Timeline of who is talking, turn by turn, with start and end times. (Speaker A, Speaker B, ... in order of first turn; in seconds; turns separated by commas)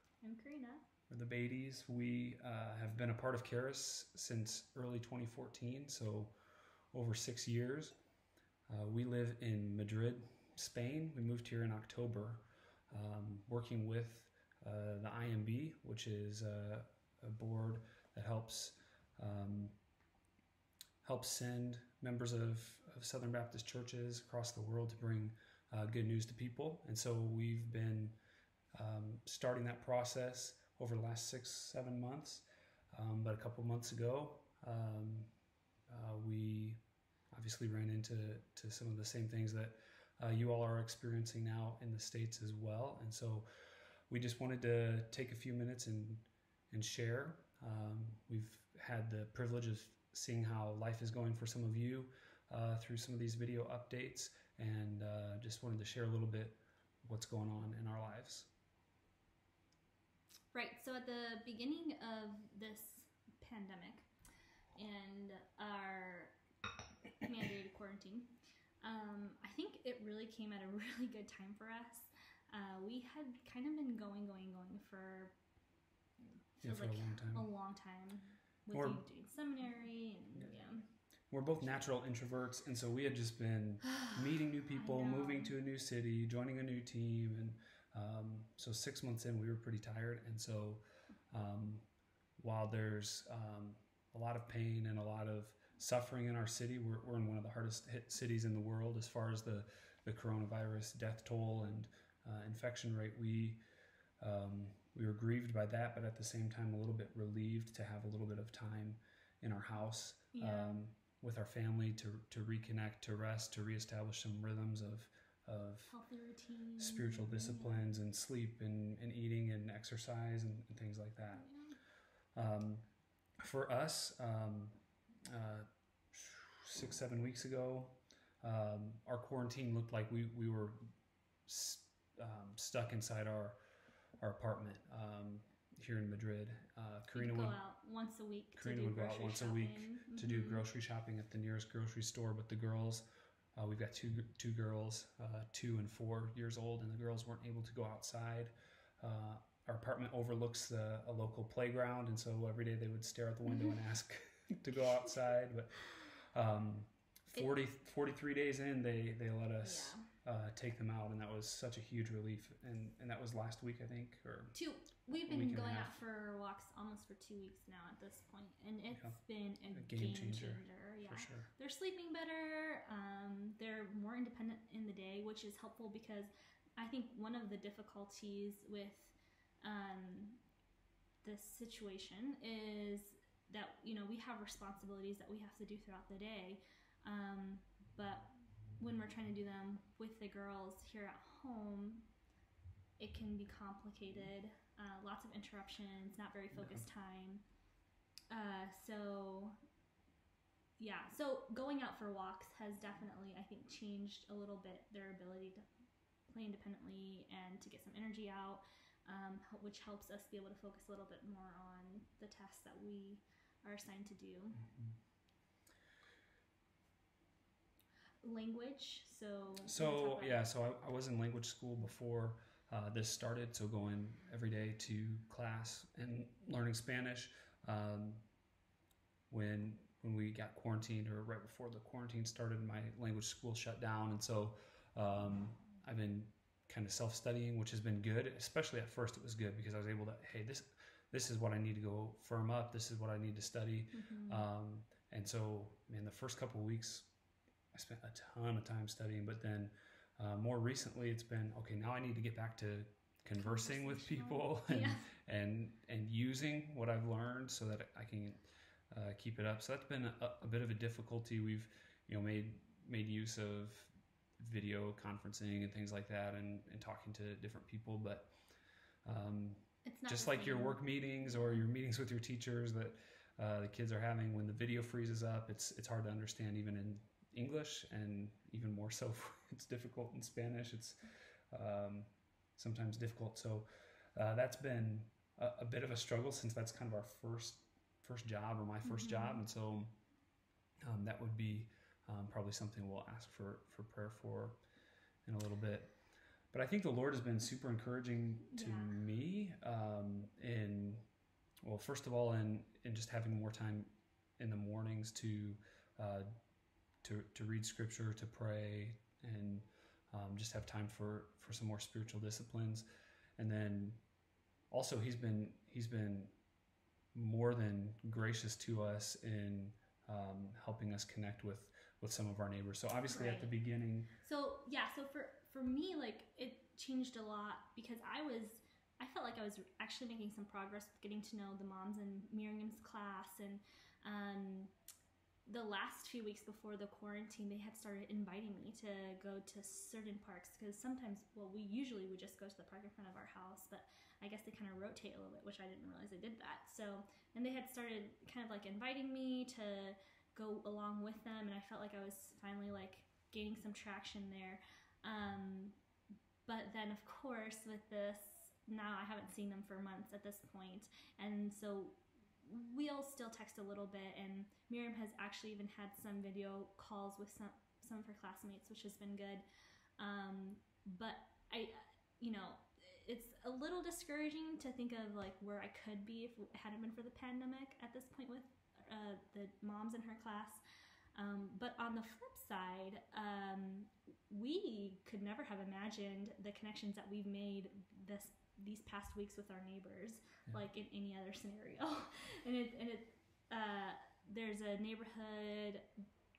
Speaker A: 0.2-0.8, Speaker B: 1.1-6.4, Speaker B: 6.9-8.0, Speaker B: 8.7-19.8, Speaker B: 21.0-28.1, Speaker B: 28.7-35.3, Speaker B: 35.9-36.8, Speaker B: 37.3-43.5, Speaker B: 44.1-58.5, Speaker A: 60.5-64.1, Speaker A: 64.8-66.4, Speaker A: 67.2-75.4, Speaker A: 76.6-80.9, Speaker B: 76.6-77.5, Speaker B: 78.7-79.0, Speaker B: 80.3-80.6, Speaker B: 81.3-103.6, Speaker A: 84.7-85.5, Speaker B: 104.2-116.0, Speaker A: 110.3-110.8, Speaker A: 115.9-117.9, Speaker B: 116.8-121.5, Speaker A: 121.3-121.8, Speaker B: 122.3-122.9, Speaker B: 123.4-130.9, Speaker B: 131.4-133.6, Speaker B: 134.2-137.6, Speaker A: 137.1-140.6, Speaker B: 138.6-164.6, Speaker A: 159.6-160.1, Speaker A: 164.5-180.4, Speaker B: 165.2-166.0, Speaker B: 168.9-171.5, Speaker A: 181.2-192.1, Speaker A: 193.0-197.4, Speaker B: 196.5-196.9, Speaker A: 198.3-199.6, Speaker A: 200.8-205.6, Speaker A: 206.3-214.6, Speaker B: 214.6-215.0, Speaker A: 218.2-220.4, Speaker B: 219.7-228.2, Speaker B: 229.3-247.1, Speaker A: 243.9-244.5, Speaker B: 247.7-268.3, Speaker A: 253.3-255.1, Speaker B: 269.0-281.0, Speaker A: 269.8-270.8, Speaker B: 281.5-289.9, Speaker A: 288.8-289.4, Speaker B: 290.9-294.6, Speaker B: 295.2-295.9, Speaker B: 296.5-301.1, Speaker A: 298.5-298.9, Speaker B: 301.6-306.3, Speaker B: 307.0-312.9, Speaker B: 313.4-314.0, Speaker B: 314.7-316.3, Speaker B: 317.1-324.1, Speaker A: 323.1-323.6, Speaker A: 324.2-334.7, Speaker A: 335.4-355.8, Speaker A: 356.4-369.4, Speaker A: 370.0-380.6, Speaker A: 381.1-395.9